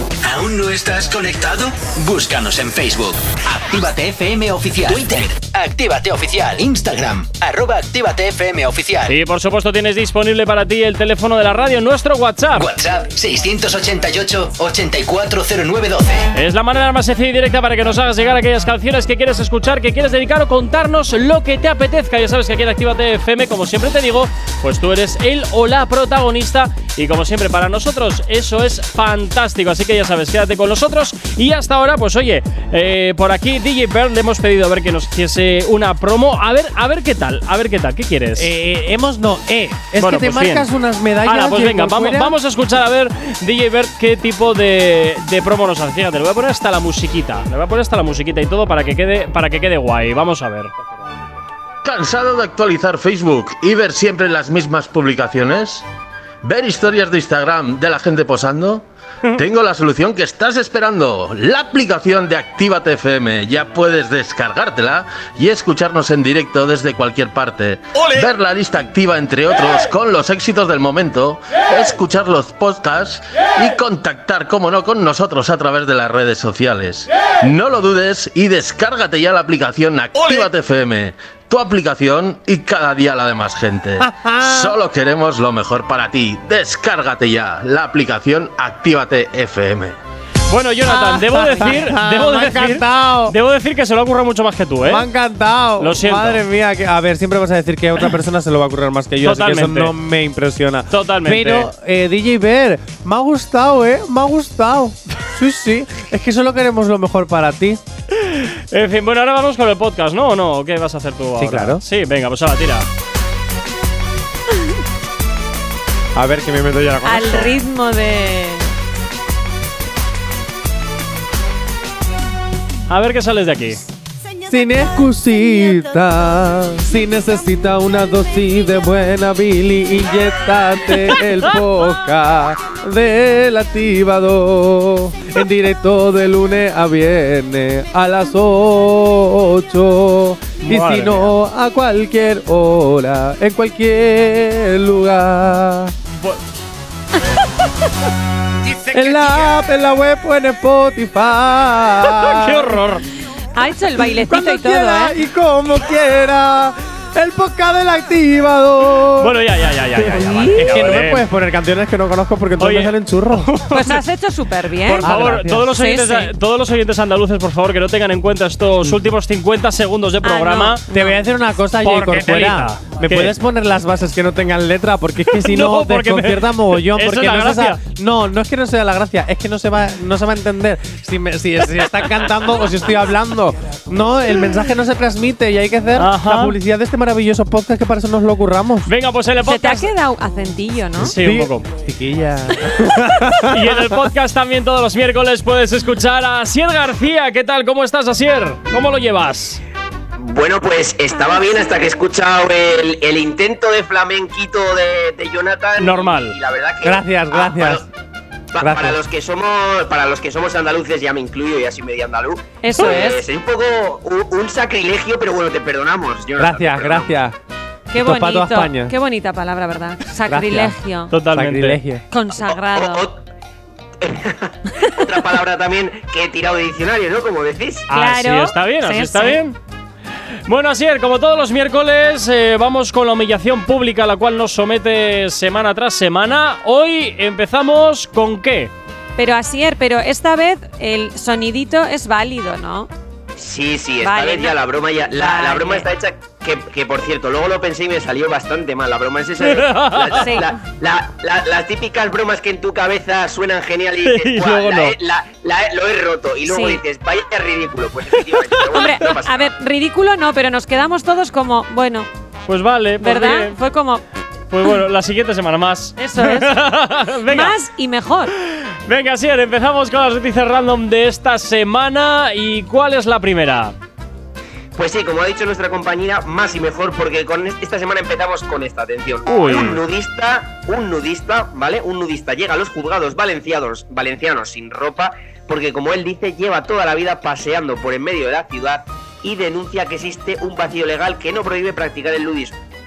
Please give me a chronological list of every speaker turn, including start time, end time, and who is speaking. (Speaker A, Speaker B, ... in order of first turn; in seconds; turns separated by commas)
Speaker A: 0.2-9.2, Speaker B: 9.1-12.7, Speaker A: 12.6-16.3, Speaker B: 16.3-38.5, Speaker C: 38.4-42.3, Speaker B: 40.0-40.7, Speaker B: 41.2-50.7, Speaker D: 51.8-55.9, Speaker D: 56.4-90.0, Speaker C: 84.0-84.8, Speaker B: 90.5-95.1, Speaker E: 90.9-91.2, Speaker C: 91.3-93.3, Speaker C: 94.9-107.8, Speaker B: 95.8-96.4, Speaker B: 99.2-99.9, Speaker B: 100.9-101.7, Speaker B: 108.1-112.9, Speaker C: 111.4-111.8, Speaker C: 116.2-117.5, Speaker E: 117.0-118.7, Speaker B: 122.9-123.8, Speaker C: 124.5-145.9, Speaker B: 140.6-141.3, Speaker B: 146.1-146.4, Speaker C: 148.9-152.8, Speaker B: 152.1-153.1, Speaker E: 153.5-155.2, Speaker C: 154.2-159.4, Speaker B: 159.2-161.2, Speaker C: 160.0-163.6, Speaker E: 160.3-160.7, Speaker B: 162.6-164.0, Speaker E: 163.7-166.3, Speaker B: 164.8-170.8, Speaker C: 165.0-165.7, Speaker E: 170.2-171.2, Speaker C: 170.9-188.9, Speaker B: 171.8-173.3, Speaker B: 175.3-177.8, Speaker B: 186.0-186.6, Speaker B: 188.9-189.9, Speaker E: 189.4-191.1, Speaker B: 191.0-191.7, Speaker C: 191.0-193.9, Speaker B: 193.4-199.6, Speaker F: 200.2-207.9, Speaker E: 201.3-201.6, Speaker B: 205.8-206.4, Speaker C: 206.8-207.9, Speaker F: 208.5-217.1, Speaker C: 208.6-209.0, Speaker E: 212.6-213.2, Speaker C: 216.4-217.4, Speaker E: 217.9-221.1, Speaker C: 217.9-218.9, Speaker C: 220.3-220.8, Speaker B: 221.1-221.8, Speaker C: 221.3-222.0, Speaker E: 222.1-223.1, Speaker F: 222.5-223.2, Speaker F: 224.0-227.9, Speaker E: 224.8-225.2, Speaker B: 227.9-229.6, Speaker E: 227.9-229.4, Speaker B: 230.5-238.7, Speaker E: 239.2-242.9, Speaker F: 243.4-259.5, Speaker E: 244.0-244.6, Speaker E: 245.1-245.9, Speaker B: 249.4-250.4, Speaker E: 250.1-250.5, Speaker B: 254.0-255.0, Speaker E: 256.5-256.8, Speaker B: 258.3-259.1, Speaker E: 258.7-262.1, Speaker B: 262.5-263.6, Speaker E: 263.0-264.0, Speaker B: 264.5-267.6, Speaker E: 266.0-268.3, Speaker B: 268.5-273.8, Speaker F: 274.8-292.6, Speaker B: 279.3-279.8